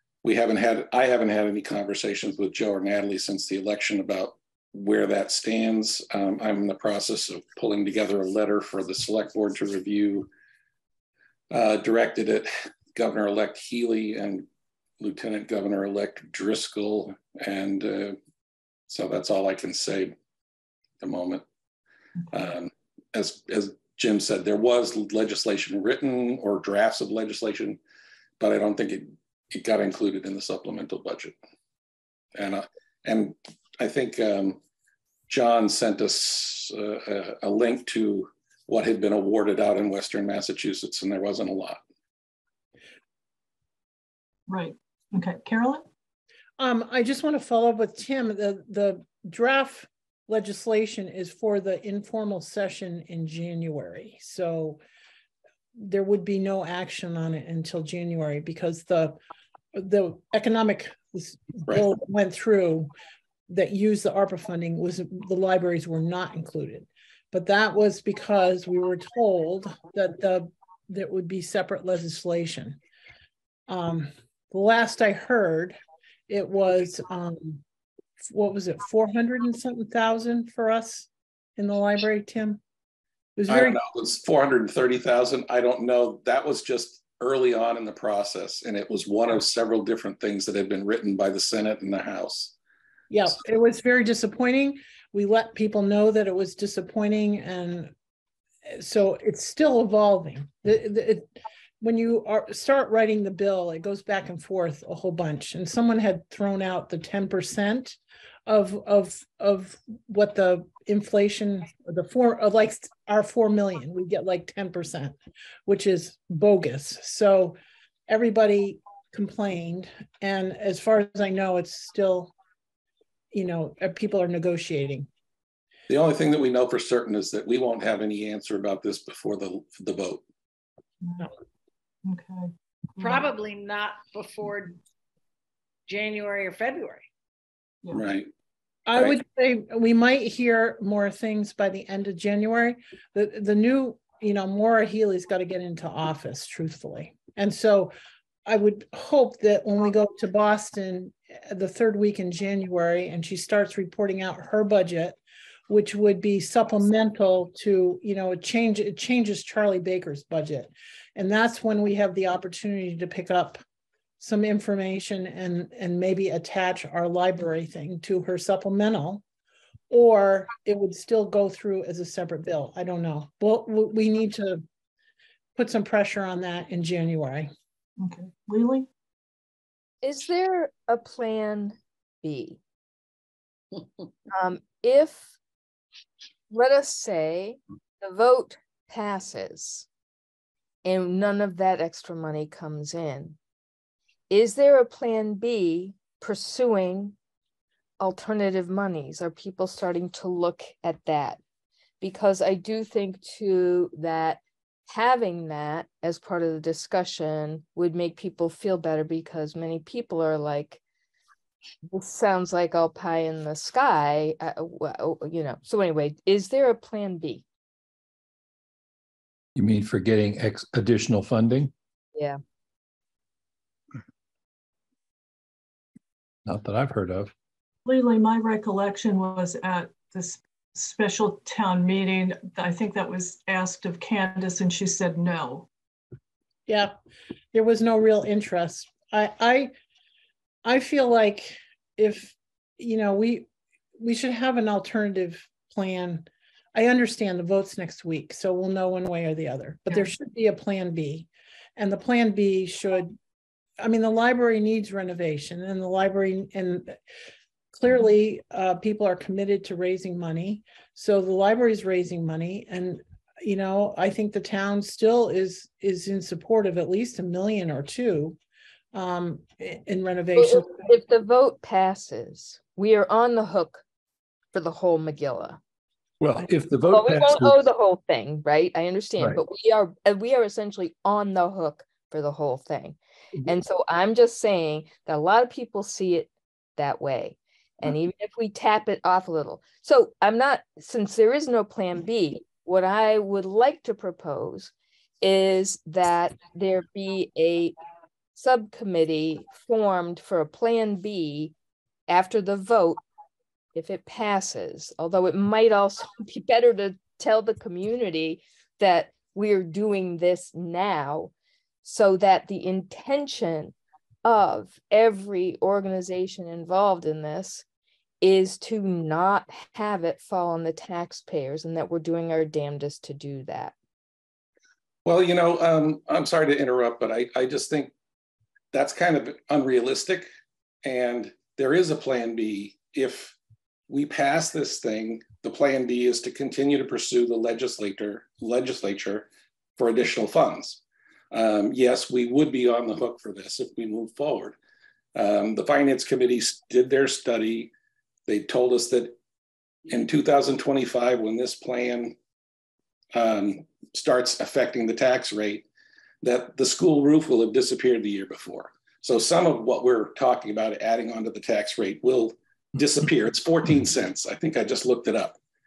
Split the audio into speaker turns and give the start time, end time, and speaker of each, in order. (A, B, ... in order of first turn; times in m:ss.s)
0:00.2-0:10.3 A
0:11.5-0:14.5 A
0:15.0-0:18.2 A
0:18.9-0:20.1 A
0:21.0-0:21.4 A
0:22.3-0:27.8 A
0:28.4-0:31.4 A
0:32.3-0:34.6 A
0:35.3-0:41.8 A
0:44.5-0:45.8 B
0:46.6-0:54.8 C
0:55.7-0:59.2 C
0:59.7-1:02.9 C
1:03.5-1:12.8 C
1:13.7-1:15.8 C
1:16.3-1:17.6 C
1:18.2-1:22.6 C
1:23.4-1:23.8 C
1:23.5-1:32.5 A
1:33.1-1:37.9 C
1:38.6-1:57.6 C
1:58.1-2:02.3 C
2:03.3-2:05.1 C
2:05.9-2:10.2 A
2:11.0-2:11.3 B
2:12.0-2:13.3 B
2:13.0-2:14.8 D
2:15.9-2:17.0 D
2:17.9-2:18.3 A
2:18.9-2:27.9 C
2:28.4-2:35.2 C
2:35.7-2:43.6 C
2:44.2-2:49.2 C
2:49.9-2:54.6 C
2:55.5-2:57.5 C
2:58.0-2:58.9 B
3:00.0-3:02.6 E
3:04.3-3:05.3 E
3:06.5-3:09.9 E
3:10.8-3:13.4 E
3:14.3-3:17.1 E
3:18.0-3:21.4 E
3:22.0-3:30.8 E
3:31.9-3:37.4 E
3:39.6-3:41.7 F
3:46.4-3:47.3 F
3:47.8-3:55.7 B
3:56.7-3:56.9 C
3:57.5-3:59.7 C
4:00.6-4:13.2 C
4:13.8-4:17.0 C
4:17.7-4:28.4 C
4:28.9-4:30.8 C
4:30.4-4:33.8 E
4:34.5-4:35.6 E
4:36.2-4:37.7 F
4:36.4-4:57.7 E
4:58.3-5:01.5 E
5:02.1-5:03.0 E
5:03.7-5:11.3 E
5:11.8-5:17.6 E
5:18.2-5:23.7 E
5:25.0-5:27.9 A
5:28.7-5:30.3 A
5:30.8-5:33.3 A
5:33.9-5:40.8 A
5:41.3-5:44.6 A
5:45.1-5:47.7 A
5:48.3-5:49.1 A
5:49.9-5:52.1 A
5:53.1-5:55.6 A
5:56.2-6:05.4 A